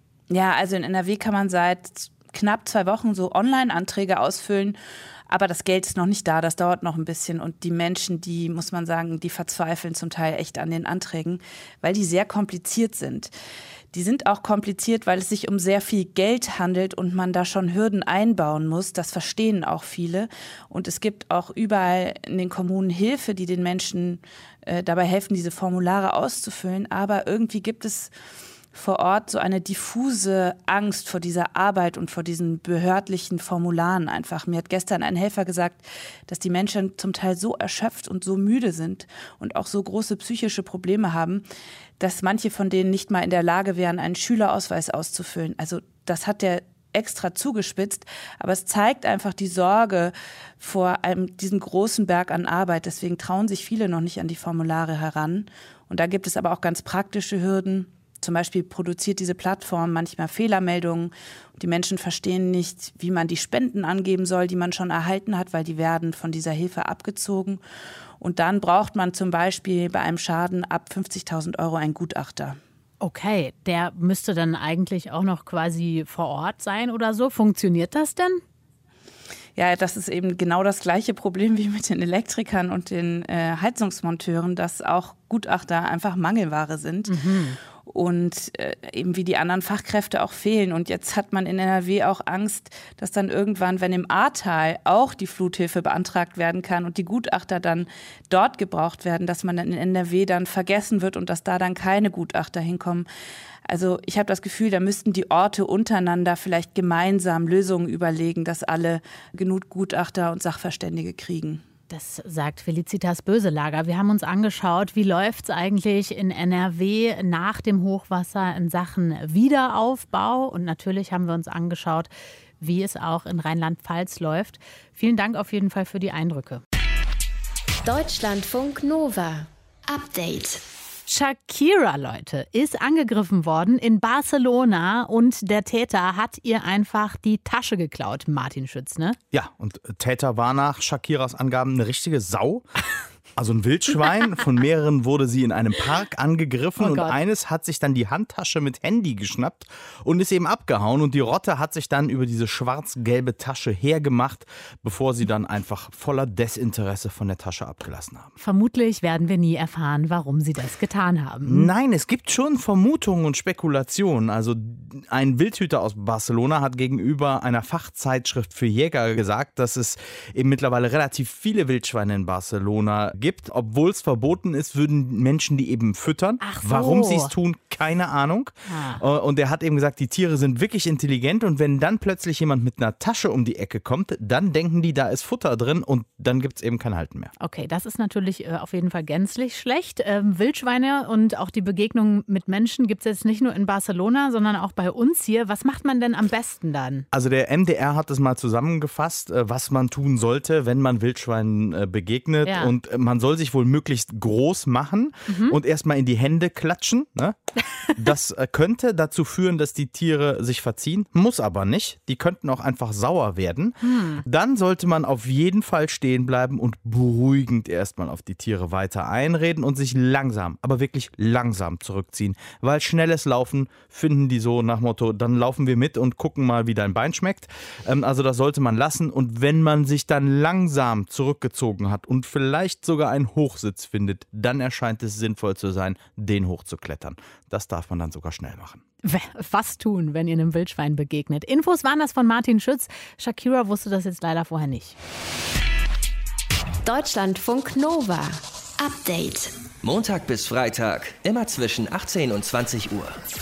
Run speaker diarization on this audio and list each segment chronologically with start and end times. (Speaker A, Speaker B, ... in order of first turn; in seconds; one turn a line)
Speaker A: 0.3-4.8
Speaker A: 5.3-13.3
Speaker A: 13.9-28.1
Speaker A: 28.7-41.4
Speaker A: 42.0-67.6
Speaker A: 68.2-72.6
Speaker B: 73.0-78.4
Speaker A: 79.6-87.2
Speaker B: 87.1-87.6
Speaker A: 87.9-103.1
Speaker A: 103.7-111.6
Speaker B: 111.9-126.6
Speaker C: 127.8-130.6
Speaker B: 131.1-139.2
Speaker D: 139.3-142.7
Speaker D: 143.4-158.3
Speaker B: 146.8-147.2
Speaker B: 158.4-161.7
Speaker D: 161.5-187.3
Speaker B: 176.4-177.3
Speaker B: 178.7-179.0
Speaker B: 187.4-197.1
Speaker D: 197.1-238.8
Speaker B: 202.5-202.7
Speaker B: 205.3-205.6
Speaker B: 213.8-214.2
Speaker B: 239.0-245.0
Speaker C: 246.8-249.6
Speaker E: 249.8-253.2